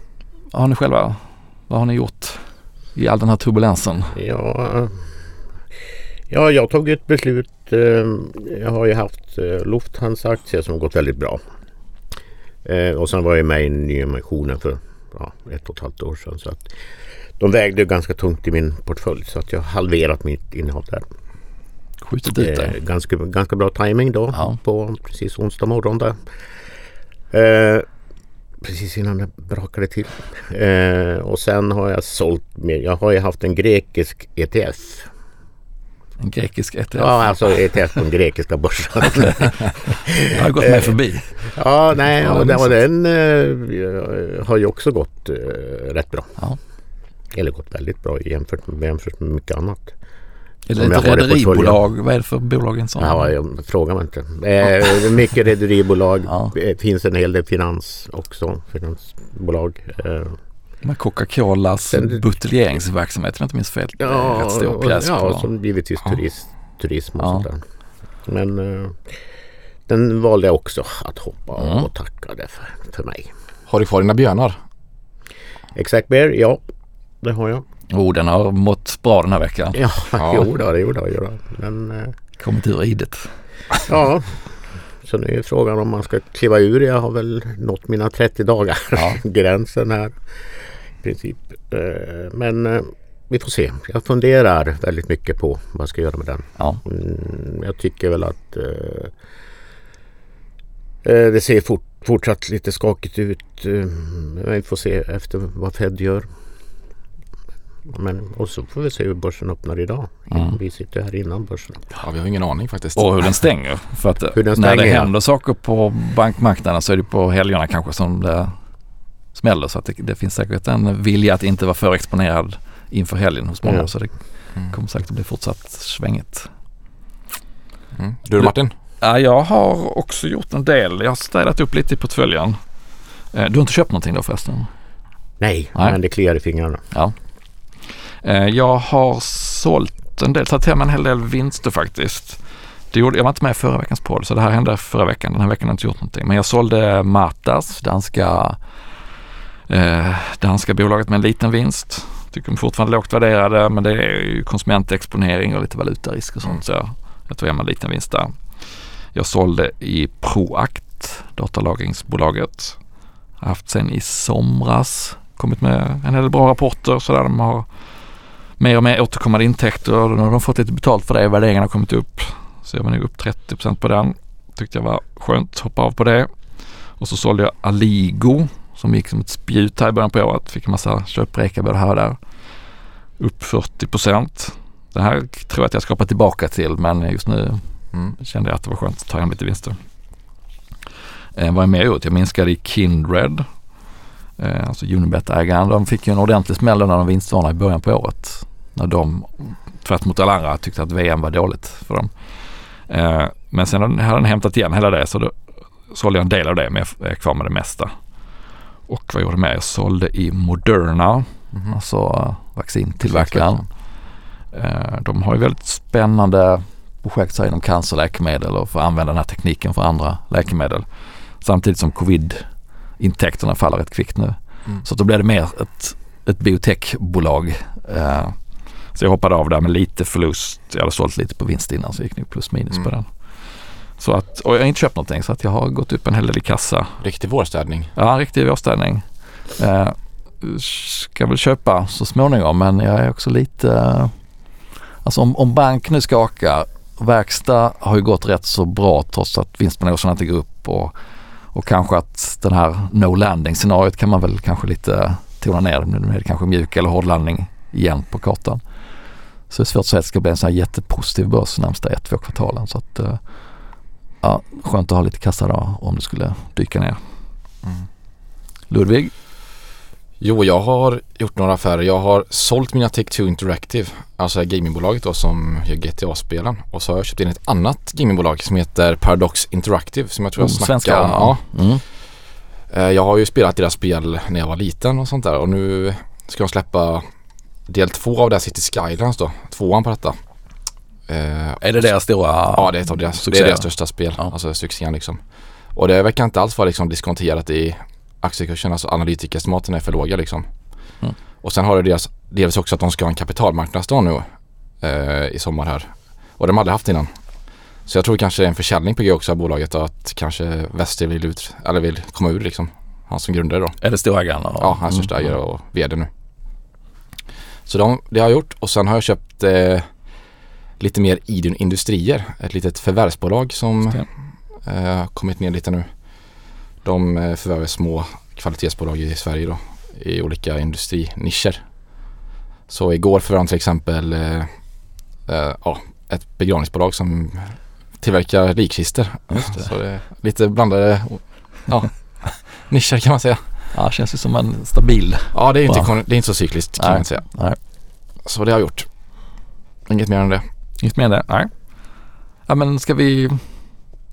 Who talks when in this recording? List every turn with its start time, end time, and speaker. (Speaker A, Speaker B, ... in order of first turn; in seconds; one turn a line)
Speaker A: 0.5-4.2
Speaker B: 4.1-4.9
Speaker B: 6.3-11.4
Speaker B: 12.6-16.7
Speaker B: 17.4-21.1
Speaker A: 22.0-22.8
Speaker B: 22.4-26.2
Speaker B: 27.3-27.9
Speaker B: 28.6-35.1
Speaker A: 36.2-37.4
Speaker B: 37.0-40.9
Speaker A: 39.1-41.5
Speaker B: 41.5-46.3
Speaker A: 42.2-42.6
Speaker B: 47.3-49.9
Speaker A: 50.7-53.3
Speaker B: 50.8-51.8
Speaker B: 53.0-60.4
Speaker A: 56.3-56.5
Speaker A: 60.8-65.5
Speaker B: 61.9-62.2
Speaker B: 64.0-67.6
Speaker A: 67.2-67.5
Speaker B: 68.2-69.2
Speaker B: 69.9-73.3
Speaker A: 71.6-71.9
Speaker C: 73.7-74.6
Speaker B: 75.7-76.6
Speaker B: 77.2-77.6
Speaker A: 77.9-79.8
Speaker B: 79.7-82.1
Speaker C: 80.2-80.5
Speaker A: 82.4-83.3
Speaker B: 83.8-84.4
Speaker B: 85.0-90.2
Speaker A: 88.9-89.2
Speaker B: 91.0-99.1
Speaker B: 101.0-106.3
Speaker B: 107.9-111.9
Speaker C: 112.0-113.1
Speaker A: 113.0-118.5
Speaker B: 114.3-115.1
Speaker A: 119.3-124.1
Speaker A: 124.7-126.5
Speaker C: 128.0-128.7
Speaker A: 128.4-132.6
Speaker A: 133.3-134.7
Speaker B: 135.4-136.8
Speaker A: 138.2-142.4
Speaker A: 142.9-148.6
Speaker A: 149.7-158.4
Speaker A: 159.1-162.8
Speaker A: 163.4-167.7
Speaker A: 168.6-176.3
Speaker A: 177.0-182.2
Speaker A: 183.2-189.8
Speaker A: 191.3-193.5
Speaker A: 194.4-205.3
Speaker A: 205.9-207.9
Speaker A: 208.9-213.7
Speaker C: 213.0-213.6
Speaker A: 214.5-220.9
Speaker A: 221.4-228.4
Speaker A: 228.9-233.1
Speaker A: 234.0-237.0
Speaker C: 237.0-237.9
Speaker A: 237.9-244.1
Speaker A: 245.0-250.9
Speaker A: 251.5-258.6
Speaker A: 259.5-263.2
Speaker A: 264.2-267.0
Speaker A: 268.7-269.1
Speaker C: 270.2-281.5
Speaker A: 280.4-281.8
Speaker C: 282.7-287.0
Speaker C: 287.7-290.2
Speaker C: 291.1-291.9
Speaker A: 291.6-294.3
Speaker C: 292.4-295.2
Speaker C: 295.7-300.4
Speaker C: 301.4-304.3
Speaker C: 304.8-307.1
Speaker C: 307.9-313.8
Speaker A: 313.8-315.3
Speaker C: 314.6-316.1
Speaker C: 317.6-319.9
Speaker C: 320.8-324.1
Speaker C: 324.6-325.9
Speaker C: 326.8-331.6
Speaker C: 332.7-334.5
Speaker C: 335.2-343.4
Speaker A: 339.3-339.7
Speaker A: 343.7-345.9
Speaker C: 345.3-347.3
Speaker A: 346.8-347.6
Speaker C: 348.2-348.9
Speaker C: 349.9-350.4
Speaker A: 350.8-351.5
Speaker A: 352.5-353.5